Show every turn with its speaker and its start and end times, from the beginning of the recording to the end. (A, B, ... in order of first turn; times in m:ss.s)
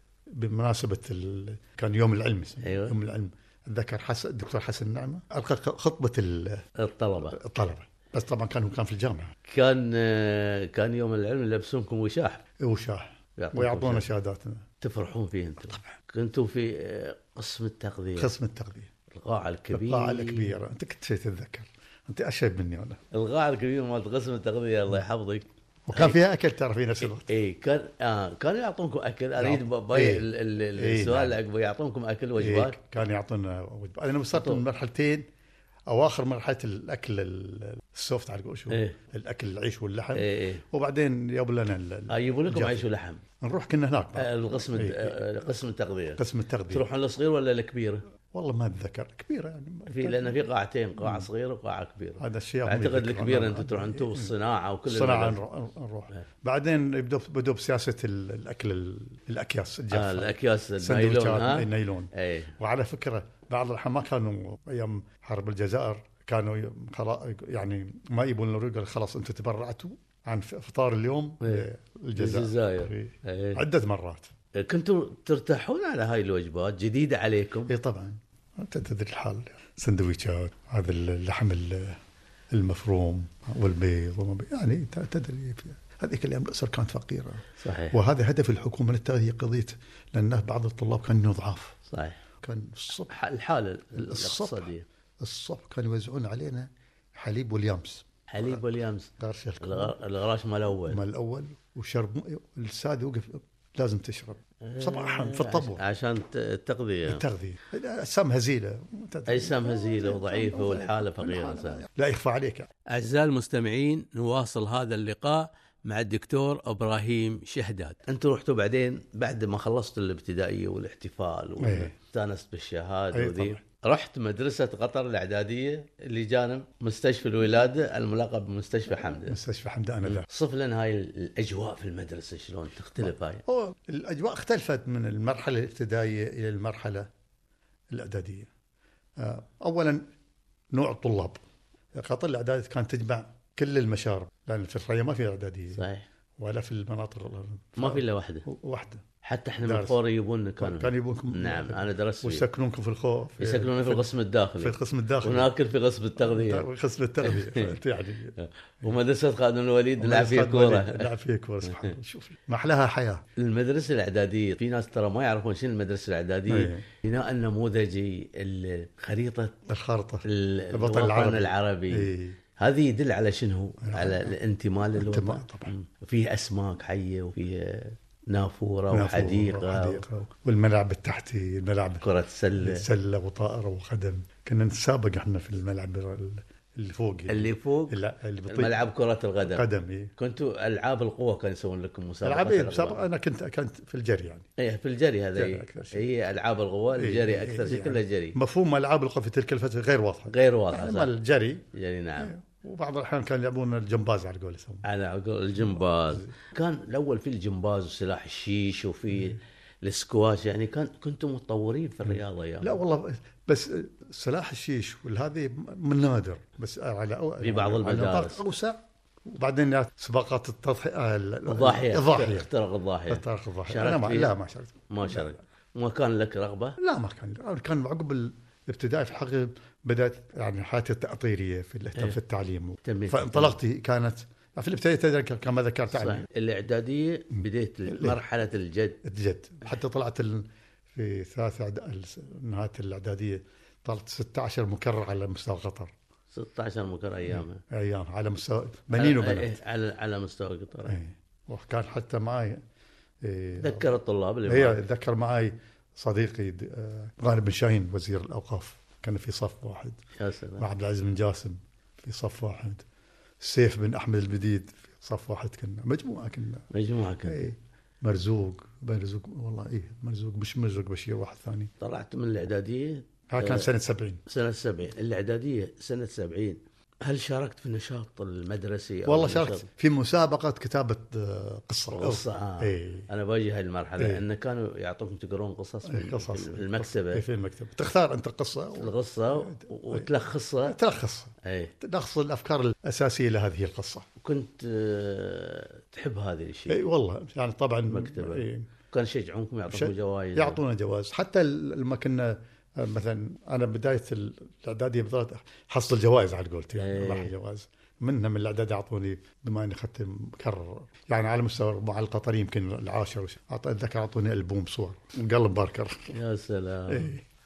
0:00.3-0:06.6 A
0:02.6-0:03.0 B
0:06.8-0:07.4 B
0:07.3-0:09.3 A
0:09.5-0:12.4 B
0:12.6-0:14.6 A
0:13.4-0:14.1 B
0:14.8-0:18.3 B
0:18.2-0:18.9 A
0:19.1-0:20.6 B
0:19.7-0:23.0 A
0:23.1-0:26.2 B
0:25.9-0:27.3 A
0:27.0-0:32.8 B
0:29.4-0:31.4 A
0:32.4-0:35.3 A
0:34.4-0:34.6 B
0:35.9-0:42.9 A
0:38.7-0:39.0 B
0:40.2-0:40.6 B
0:42.1-0:43.2 B
0:43.4-0:45.2 A
0:44.2-0:48.1 B
0:46.2-0:46.9 A
0:48.3-0:50.4 A
0:49.9-0:55.4 B
0:51.0-0:51.3 A
0:52.2-0:54.3 A
0:54.9-1:14.3 A
0:59.9-1:02.5 B
1:11.4-1:13.6 B
1:14.6-1:17.7 B
1:17.7-1:22.0 A
1:22.5-1:31.8 A
1:27.6-1:28.0 B
1:31.9-1:32.2 B
1:32.4-1:33.1 A
1:33.1-1:34.9 B
1:33.9-1:34.7 A
1:35.2-1:38.6 A
1:38.3-1:41.0 B
1:39.2-1:40.0 A
1:40.8-1:45.8 A
1:44.6-1:47.2 B
1:47.1-1:52.7 A
1:49.3-1:51.8 B
1:52.9-2:09.4 B
2:01.6-2:01.9 A
2:03.1-2:03.6 A
2:09.1-2:10.3 A
2:10.1-2:13.4 B
2:13.0-2:17.1 A
2:17.9-2:18.5 A
2:19.2-2:20.0 A
2:20.7-2:21.4 A
2:21.9-2:25.8 A
2:25.7-2:26.1 B
2:26.4-2:29.0 A
2:27.8-2:28.4 B
2:29.2-2:32.4 B
2:29.6-2:30.0 A
2:30.6-2:34.0 A
2:33.4-2:36.7 B
2:34.6-2:35.5 A
2:36.2-2:38.4 A
2:37.2-2:37.8 B
2:38.4-2:41.1 B
2:40.0-2:43.2 A
2:43.4-2:49.6 B
2:46.5-2:46.8 A
2:49.7-2:52.4 A
2:50.2-3:00.0 B
2:53.9-2:54.3 A
2:54.9-2:55.7 A
2:58.9-3:02.0 A
3:02.0-3:02.9 B
3:02.6-3:08.9 A
3:07.3-3:09.6 B
3:09.4-3:10.1 A
3:10.2-3:13.0 B
3:12.2-3:14.5 A
3:14.6-3:18.4 B
3:15.4-3:16.1 A
3:17.0-3:21.7 A
3:20.3-3:21.1 B
3:21.7-3:22.4 B
3:22.2-3:24.8 A
3:24.8-3:32.8 B
3:25.6-3:26.3 A
3:32.1-3:42.5 A
3:37.4-3:38.4 B
3:41.5-3:44.4 B
3:43.1-3:45.4 A
3:44.9-3:46.8 B
3:46.8-3:56.3 A
3:52.8-3:53.6 B
3:55.9-3:59.0 B
3:57.3-3:58.2 A
3:59.0-4:05.9 A
4:06.3-4:07.6 B
4:07.3-4:09.6 A
4:08.9-4:11.0 B
4:10.8-4:12.6 A
4:13.2-4:13.9 A
4:13.6-4:14.8 B
4:14.5-4:20.0 A
4:20.2-4:20.7 B
4:20.6-4:22.8 A
4:23.4-4:26.7 A
4:26.7-4:27.5 B
4:27.2-4:31.7 A
4:31.8-4:33.7 B
4:33.3-4:34.2 A
4:34.3-4:39.7 B
4:39.1-4:43.1 A
4:41.9-4:47.2 B
4:45.9-4:50.1 A
4:48.8-4:50.8 B
4:50.7-4:54.1 A
4:51.4-4:51.7 B
4:54.2-4:56.8 B
4:56.7-4:58.7 A
4:57.9-5:00.6 B
4:59.7-5:16.1 A
5:06.8-5:07.3 B
5:16.1-5:17.2 B
5:16.9-5:17.2 A